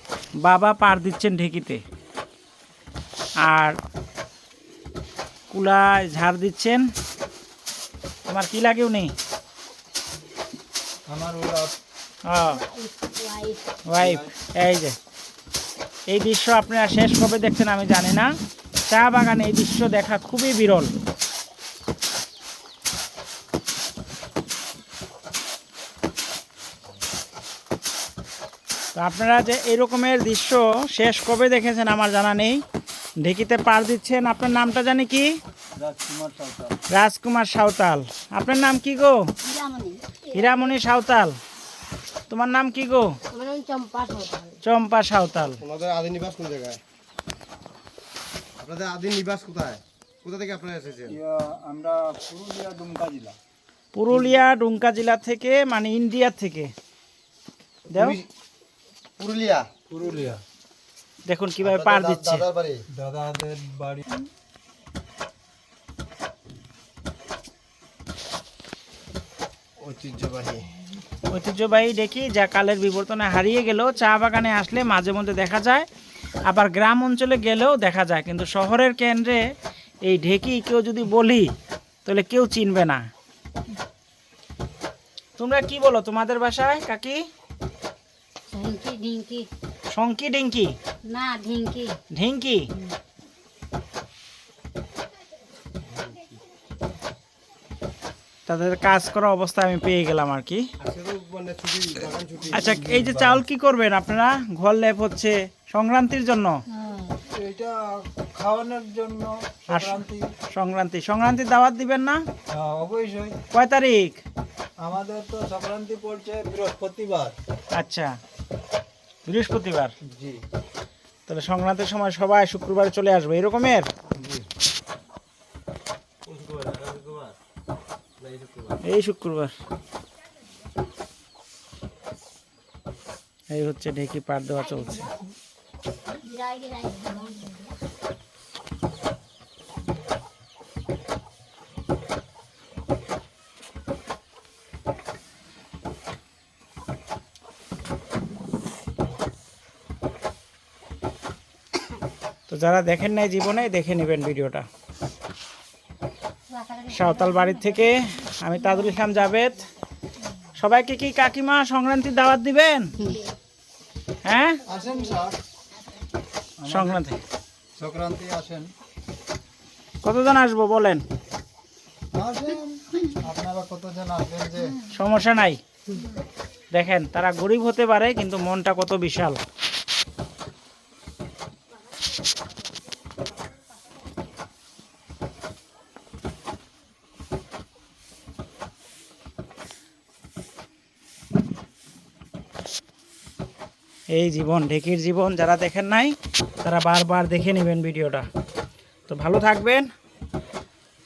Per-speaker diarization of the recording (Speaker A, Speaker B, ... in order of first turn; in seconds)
Speaker A: 0.4-1.8, 3.5-3.8, 5.5-6.8, 8.3-9.1, 12.3-12.6, 13.9-14.9, 16.1-18.3, 18.9-20.9, 28.9-32.6, 33.2-35.3, 36.9-39.3, 40.3-41.4, 42.3-43.2, 44.6-45.6, 53.9-56.7, 57.9-58.2, 61.3-62.5, 71.3-75.9, 76.5-79.4, 80.1-81.5, 82.0-83.0, 85.4-87.2, 89.9-90.8, 92.1-92.7, 98.5-100.7, 102.5-106.6, 109.7-110.0, 110.5-112.2, 113.5-114.2, 117.8-118.1, 119.3-119.9, 121.3-123.9, 128.8-129.5, 133.5-135.1, 152.5-154.7, 156.9-159.7, 160.6-163.0, 164.2-164.6, 166.7-167.2, 170.0-171.0, 174.9-175.6, 176.7-179.4, 194.1-198.3, 199.1-199.9
Speaker B: 11.1-11.7, 14.0-14.3, 35.8-36.8, 51.1-53.4, 59.9-60.4, 62.9-64.2, 102.6-103.4, 107.3-110.3, 112.5-113.4, 114.8-117.4, 120.0-120.4, 124.1-124.5, 164.7-165.4, 166.6-167.1, 167.8-168.7, 172.1-174.8
Speaker C: 12.5-13.7, 39.4-40.7, 43.3-44.6, 88.5-89.5, 91.0-92.0, 106.7-107.2, 134.6-135.3, 136.2-137.7, 156.5-157.9, 163.0-163.3, 164.7-165.3
Speaker D: 45.6-46.8, 48.6-51.1, 58.0-58.3, 59.2-59.7, 61.6-62.9, 69.8-70.7, 100.8-102.9, 126.2-127.4, 128.2-128.8